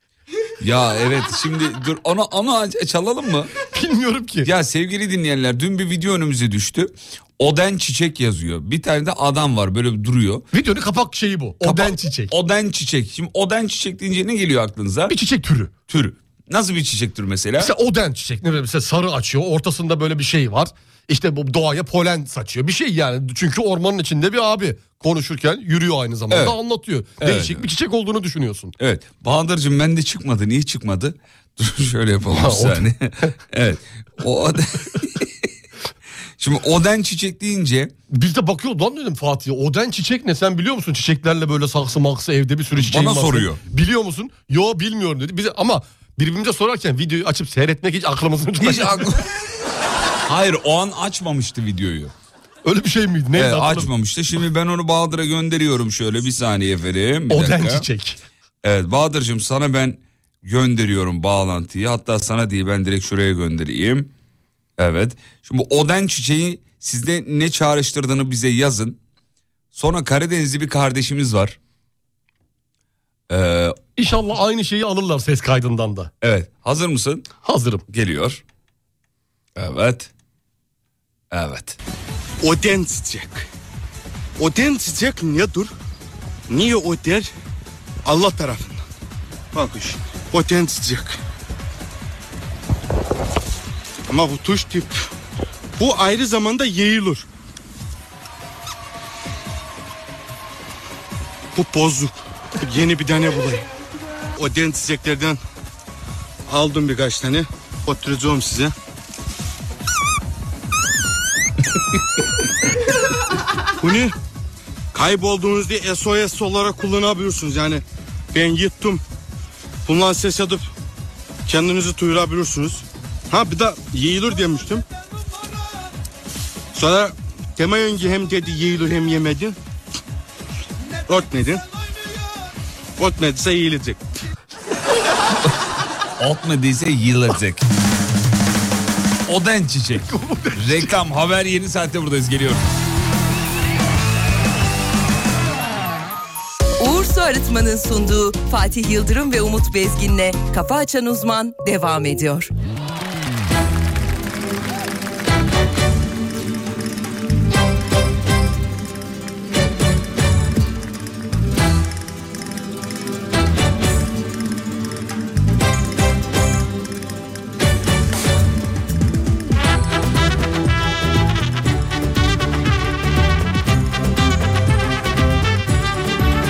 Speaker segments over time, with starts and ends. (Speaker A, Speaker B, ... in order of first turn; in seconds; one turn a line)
Speaker A: 0.6-3.5
Speaker B: 3.7-4.5
Speaker A: 4.4-10.5
Speaker B: 10.5-12.3
Speaker A: 11.6-15.2
Speaker B: 15.1-15.7
Speaker A: 15.9-17.7
Speaker B: 17.6-28.7
Speaker A: 26.3-26.6
Speaker A: 27.2-27.7
Speaker A: 28.8-35.5
Speaker B: 32.3-33.4
Speaker A: 36.4-37.9
Speaker B: 38.1-49.1
Speaker A: 42.8-43.6
Speaker A: 48.6-49.4
Speaker A: 50.3-52.1
Speaker B: 52.6-53.9
Speaker A: 53.3-57.9
Speaker B: 57.3-58.2
Speaker A: 58.6-64.1
Speaker A: 64.8-69.0
Speaker A: 69.7-71.6
Speaker A: 73.3-73.8
Speaker B: 74.0-76.1
Speaker A: 76.2-77.3
Speaker B: 77.4-77.8
Speaker A: 77.9-78.4
Speaker A: 79.6-80.1
Speaker A: 81.3-81.8
Speaker C: 82.4-83.4
Speaker C: 84.4-85.7
Speaker C: 86.5-87.3
Speaker C: 88.1-88.7
Speaker C: 89.6-91.2
Speaker C: 94.1-94.9
Speaker C: 95.8-97.2
Speaker C: 101.6-102.1
Speaker C: 102.7-103.6
Speaker C: 104.4-105.4
Speaker C: 106.5-108.7
Speaker C: 113.8-114.1
Speaker C: 115.0-117.8
Speaker C: 118.3-119.0
Speaker C: 119.9-120.6
Speaker C: 121.5-122.8
Speaker C: 123.3-124.8
Speaker C: 126.8-129.6
Speaker C: 131.1-131.6
Speaker C: 133.0-134.0
Speaker A: 136.2-137.7
Speaker A: 139.3-142.7
Speaker B: 140.1-141.0
Speaker D: 146.8-152.5